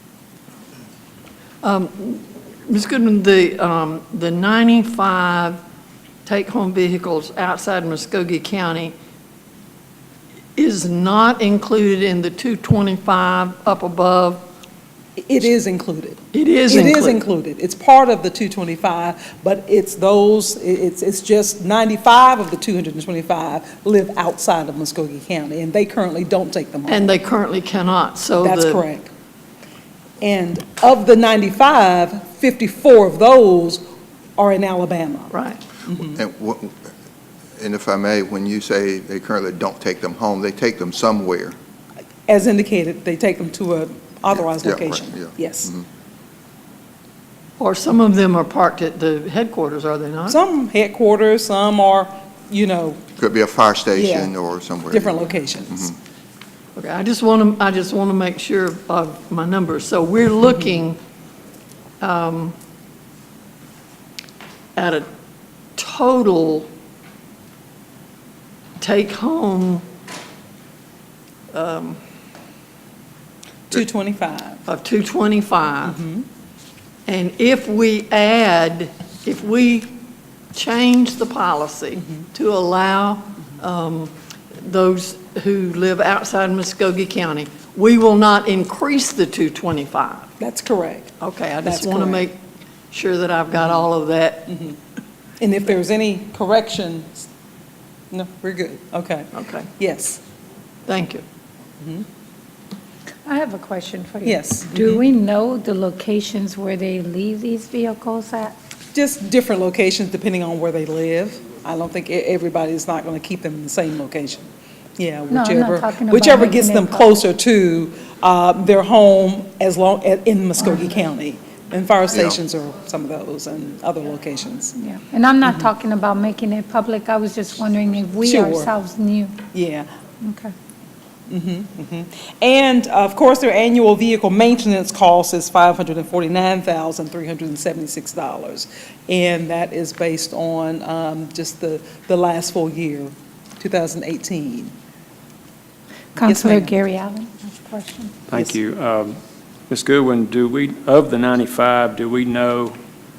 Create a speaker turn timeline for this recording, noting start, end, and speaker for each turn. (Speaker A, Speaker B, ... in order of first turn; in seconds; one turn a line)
Speaker A: 1.6-5.6
Speaker A: 6.3-8.9
Speaker A: 10.6-14.4
Speaker B: 15.2-27.2
Speaker A: 16.3-17.2
Speaker A: 26.9-28.8
Speaker B: 28.4-29.1
Speaker B: 30.2-33.8
Speaker B: 34.4-35.3
Speaker A: 35.3-35.6
Speaker B: 35.9-36.2
Speaker C: 36.0-36.9
Speaker C: 37.6-41.6
Speaker B: 42.3-45.7
Speaker C: 44.3-45.9
Speaker A: 47.6-50.4
Speaker B: 50.3-53.0
Speaker C: 53.2-55.9
Speaker B: 53.9-54.3
Speaker B: 54.9-55.9
Speaker A: 56.8-61.0
Speaker A: 62.0-62.6
Speaker A: 64.8-65.1
Speaker A: 65.8-66.7
Speaker A: 68.8-69.8
Speaker A: 71.5-72.0
Speaker B: 73.7-74.6
Speaker A: 74.7-76.0
Speaker B: 75.9-76.2
Speaker A: 77.1-79.9
Speaker A: 80.5-84.1
Speaker A: 84.6-90.3
Speaker B: 90.4-91.1
Speaker A: 91.2-92.4
Speaker B: 91.6-92.3
Speaker A: 92.9-94.6
Speaker B: 94.5-94.8
Speaker B: 95.4-97.3
Speaker B: 98.1-100.2
Speaker A: 99.3-99.7
Speaker A: 100.9-101.2
Speaker D: 103.3-108.5
Speaker B: 104.2-105.0
Speaker B: 108.9-114.5
Speaker B: 115.0-124.7
Speaker D: 115.3-117.2
Speaker C: 122.1-122.4
Speaker D: 124.8-129.4
Speaker B: 128.2-128.7
Speaker B: 129.5-129.9
Speaker D: 130.2-130.5
Speaker B: 131.3-144.7
Speaker D: 146.2-148.2
Speaker B: 146.2-146.7
Speaker E: 148.3-149.2
Speaker E: 149.7-152.8